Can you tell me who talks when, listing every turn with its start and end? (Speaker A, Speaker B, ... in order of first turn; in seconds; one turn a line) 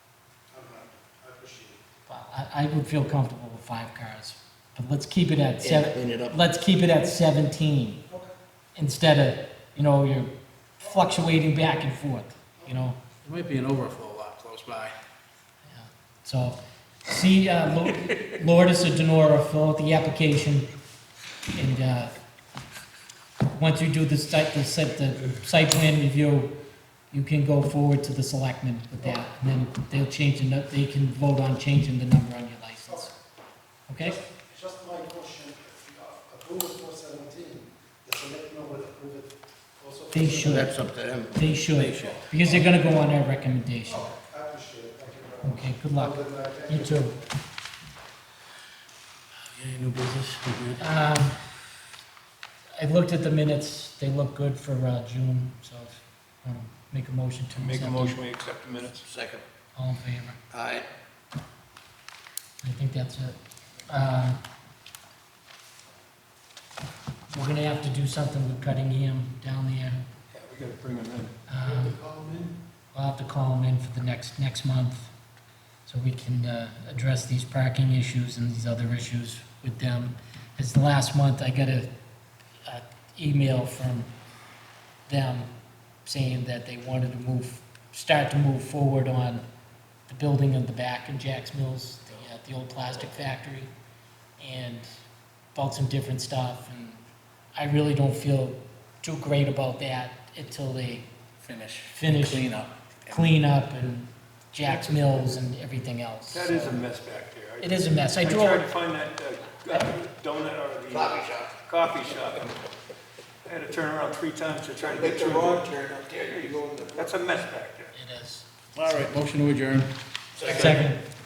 Speaker A: 0.5-1.8
Speaker B: 2.1-8.0
Speaker C: 5.6-6.3
Speaker B: 8.8-10.3
Speaker B: 10.8-13.0
Speaker C: 13.2-14.9
Speaker B: 15.7-20.7
Speaker B: 21.5-22.1
Speaker B: 23.5-26.5
Speaker B: 27.1-33.1
Speaker B: 33.9-34.2
Speaker A: 34.0-40.7
Speaker B: 40.1-40.8
Speaker C: 40.6-42.2
Speaker B: 41.4-44.1
Speaker A: 43.9-47.1
Speaker B: 45.4-47.2
Speaker C: 49.5-50.9
Speaker B: 50.8-51.4
Speaker B: 52.8-58.2
Speaker D: 57.6-58.9
Speaker B: 59.8-60.4
Speaker B: 62.6-64.4
Speaker B: 67.3-70.0
Speaker D: 70.4-71.0
Speaker B: 71.5-72.0
Speaker B: 72.9-75.1
Speaker B: 75.8-81.9
Speaker B: 82.6-84.1
Speaker B: 85.1-85.5
Speaker B: 86.0-89.4
Speaker B: 90.1-93.7
Speaker B: 94.4-94.9
Speaker B: 95.5-97.0
Speaker B: 97.5-101.1
Speaker C: 101.4-103.3
Speaker B: 101.8-102.5
Speaker B: 103.1-106.8
Speaker D: 106.3-107.7
Speaker B: 107.6-108.7
Speaker D: 108.2-112.5
Speaker E: 110.9-112.4
Speaker D: 113.5-115.7
Speaker E: 114.9-117.2
Speaker D: 117.0-117.9
Speaker B: 117.9-118.5
Speaker C: 118.8-119.9
Speaker E: 120.4-120.7
Speaker C: 120.4-120.8
Speaker B: 120.4-121.0